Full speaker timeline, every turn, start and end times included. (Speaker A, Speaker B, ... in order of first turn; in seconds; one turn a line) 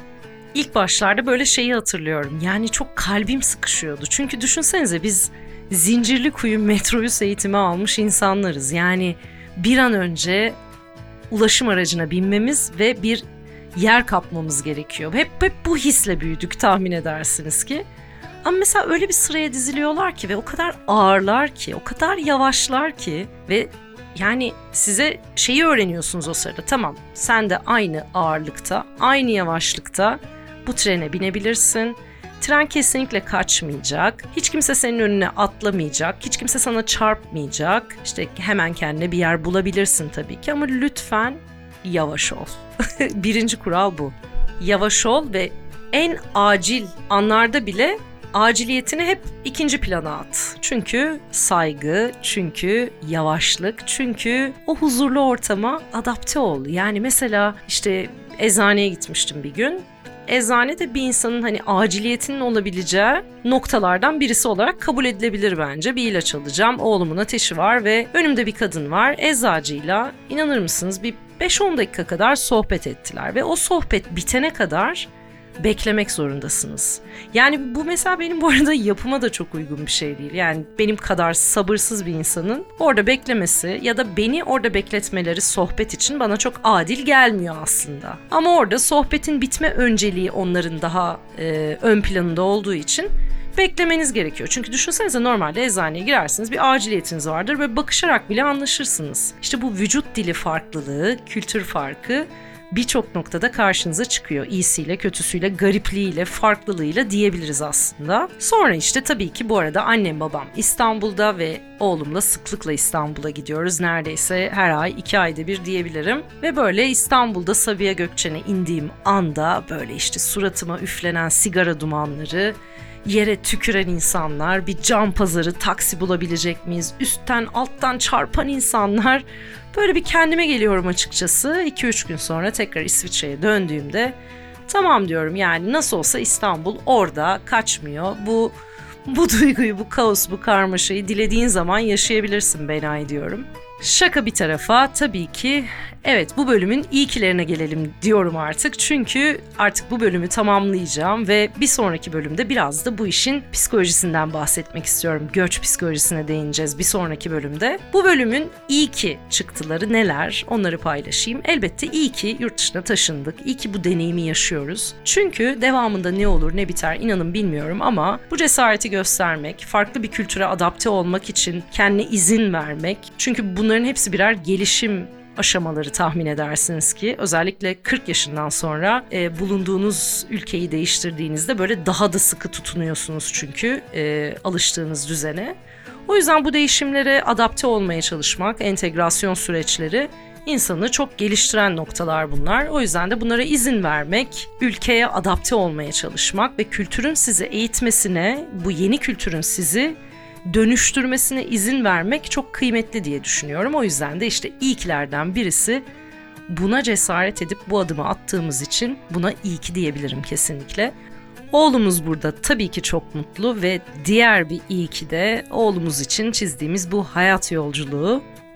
Speaker A: 0.5-10.6
Speaker A: 11.3-13.2
Speaker A: 13.7-17.8
Speaker A: 18.4-134.1
Speaker A: 134.7-138.5
Speaker A: 139.1-185.5
Speaker A: 186.1-199.9
Speaker A: 200.4-205.8
Speaker A: 206.5-210.9
Speaker A: 211.5-218.2